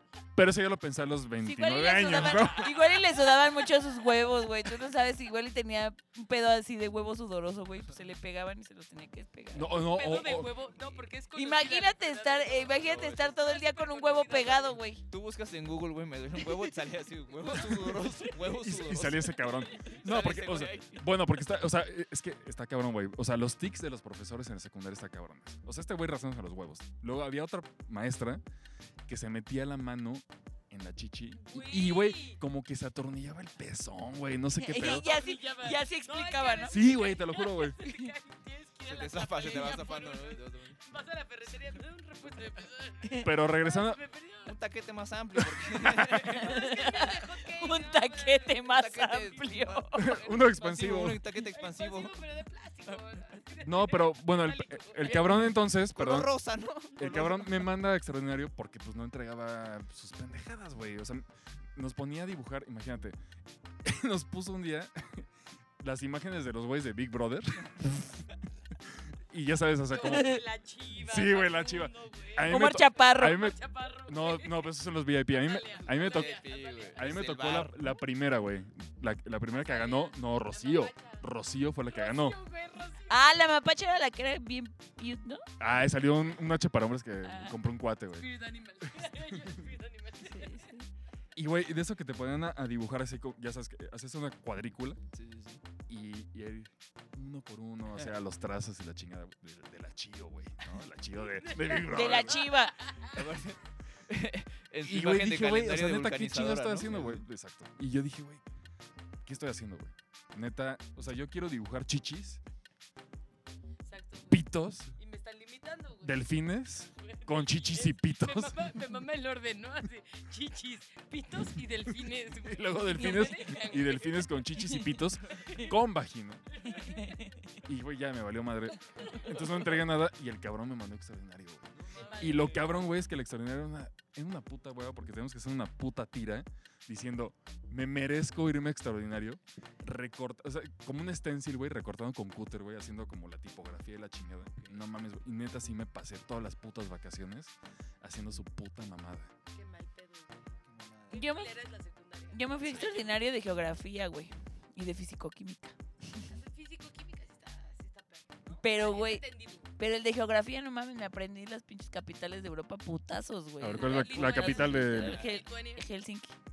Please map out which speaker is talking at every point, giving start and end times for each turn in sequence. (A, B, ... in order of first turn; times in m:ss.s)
0:00.4-0:02.8 A
0:01.4-0:10.2 B
0:09.5-0:10.7 A
0:09.9-0:14.8 C
0:11.4-0:15.0 B
0:12.6-0:13.5 D
0:15.1-0:21.2 D
0:16.4-0:16.7 B
0:18.5-0:28.4 A
0:29.1-0:35.2 A
0:31.4-0:32.4 C
0:34.6-0:36.8 B
0:34.9-0:44.6 C
0:36.7-0:37.8 A
0:38.8-0:40.8 D
0:43.2-0:44.0 A
0:44.4-0:47.0 D
0:45.7-0:46.1 A
0:46.1-0:49.4 C
0:46.4-0:50.1 B
0:48.7-0:52.2 D
0:50.0-0:51.2 A
0:50.0-0:55.5 C
0:53.6-0:56.3 A
0:55.8-0:57.7 D
0:57.0-1:03.2 A
1:03.8-1:05.3 A
1:05.8-1:08.2 A
1:09.3-1:10.4 A
1:09.9-1:14.7 C
1:10.0-1:10.4 B
1:11.0-1:22.4 A
1:12.5-1:13.5 B
1:15.3-1:17.2 C
1:15.9-1:18.0 D
1:19.5-1:21.2 C
1:21.9-1:23.2 C
1:23.1-1:25.4 B
1:25.6-1:28.3 A
1:27.2-1:27.6 B
1:28.2-1:30.6 C
1:28.8-1:29.6 A
1:30.2-1:30.9 B
1:31.4-1:35.0 A
1:35.1-1:35.6 D
1:35.9-1:42.5 A
1:41.4-1:41.8 C
1:41.9-1:42.8 B
1:42.5-1:43.1 C
1:43.0-1:47.2 D
1:44.8-1:48.4 A
1:49.2-1:52.4 A
1:53.8-1:56.2 C
1:54.3-1:55.0 A
1:56.0-1:58.7 A
1:57.0-2:04.6 C
2:02.4-2:06.5 A
2:05.3-2:05.7 C
2:06.6-2:07.2 C
2:06.8-2:07.3 B
2:07.6-2:29.3 A
2:11.8-2:12.9 D
2:12.0-2:12.7 C
2:24.6-2:24.8 D
2:29.5-2:30.5 C
2:30.6-2:31.4 D
2:31.1-2:33.1 C
2:31.1-2:31.5 B
2:32.3-2:36.2 B
2:36.3-2:39.7 C
2:38.6-2:46.4 B
2:43.6-2:45.2 A
2:43.8-2:45.8 C